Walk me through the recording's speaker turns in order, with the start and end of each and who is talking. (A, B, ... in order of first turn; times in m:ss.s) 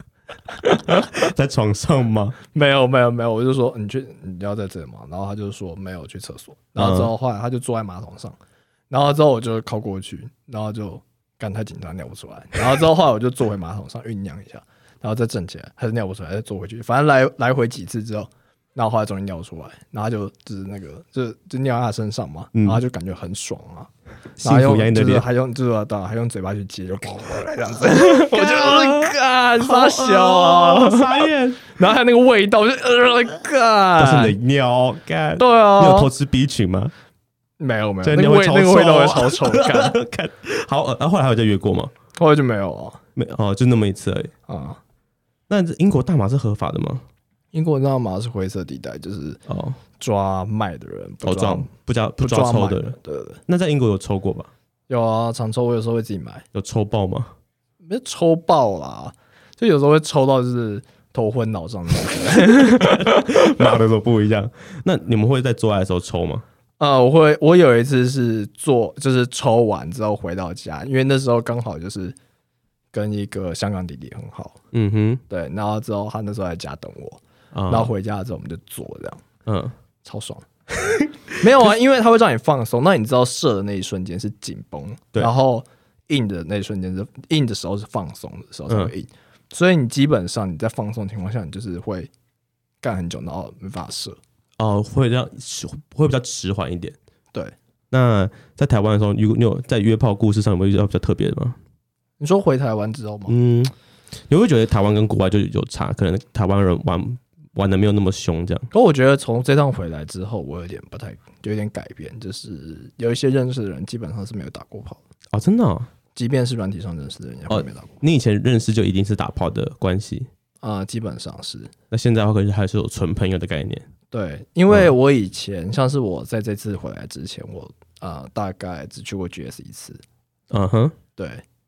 0:00.9-0:02.4 A
0:02.5-0:08.4 B
0:06.8-0:07.1 A
0:08.9-0:34.4 B
0:22.6-0:22.8 A
0:24.4-0:25.2 A
0:28.3-0:31.6 A
0:34.0-0:36.9 A
0:35.4-0:36.1 B
0:37.6-0:40.0 B
0:38.0-0:41.9 A
0:42.2-0:43.0 B
0:43.2-0:44.3 A
0:44.5-0:44.8 B
0:45.5-0:47.0 A
0:47.5-0:49.4 B
0:49.5-0:49.8 A
0:50.0-0:53.4 B
0:51.2-0:53.0 A
0:53.5-0:54.5 A
0:54.9-0:56.4 B
0:56.5-0:57.3 A
0:57.9-1:03.2 B
1:02.6-1:06.4 A
1:06.8-1:12.2 B
1:12.9-1:14.6 B
1:14.7-1:15.2 A
1:15.3-1:19.2 B
1:17.6-1:17.9 A
1:19.5-1:19.7 A
1:20.0-1:20.5 B
1:21.3-1:32.1 B
1:32.8-1:34.2 B
1:34.6-1:37.0 A
1:37.9-1:41.6 A
1:42.2-1:43.4 B
1:43.3-1:43.7 A
1:44.3-1:48.7 A
1:48.7-1:55.0 B
1:55.3-1:55.9 A
1:56.2-1:57.9 B
1:57.5-2:00.3 A
2:00.6-2:01.7 B
2:01.9-2:03.9 A
2:04.1-2:10.0 B
2:10.5-2:11.0 A
2:11.2-2:11.4 B